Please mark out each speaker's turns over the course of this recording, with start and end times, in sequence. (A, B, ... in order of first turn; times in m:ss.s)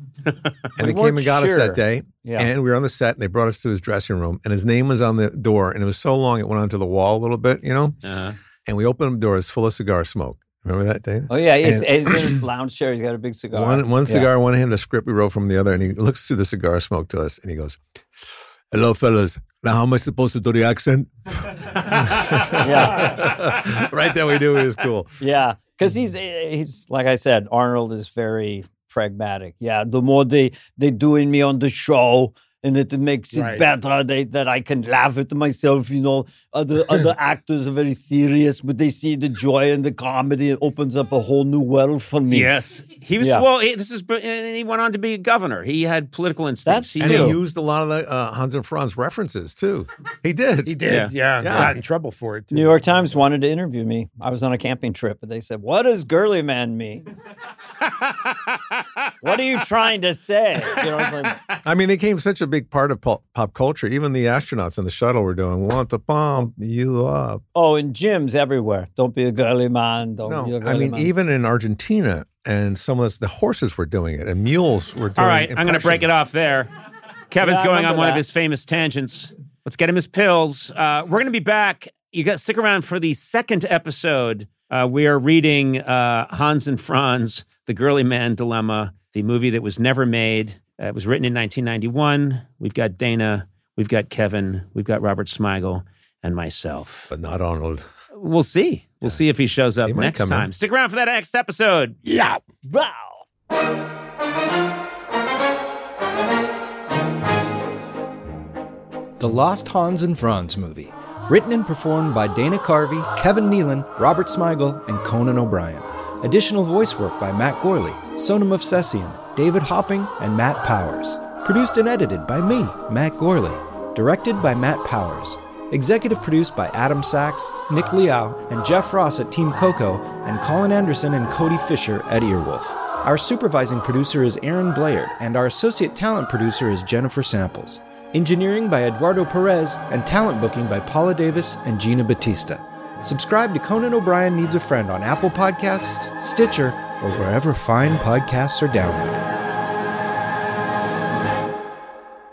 0:00.8-0:08.0 A
0:00.8-0:02.5 B
0:08.0-0:08.4 C
0:08.6-0:12.4 A
0:11.3-0:14.3 B
0:13.5-0:17.8 A
0:18.7-0:25.2 A
0:21.8-0:22.6 C
0:22.5-0:23.4 B
0:25.2-0:42.5 B
0:33.3-0:33.6 D
0:42.3-0:47.4 C
0:43.2-0:43.4 B
0:46.6-0:47.4 B
0:47.0-0:51.7 A
0:50.6-0:53.1 D
0:50.9-0:51.7 C
0:52.5-0:57.1 B
0:57.9-0:58.8 C
0:59.2-1:01.4 B
1:01.6-1:07.4 A
1:07.5-1:11.1 B
1:10.2-1:16.2 A
1:15.2-1:16.7 C
1:17.3-1:37.1 C
1:17.4-1:18.2 B
1:37.1-1:37.9 A
1:38.1-1:42.0 C
1:39.8-1:40.5 A
1:42.0-1:42.4 D
1:42.6-1:43.2 B
1:49.2-2:29.2 E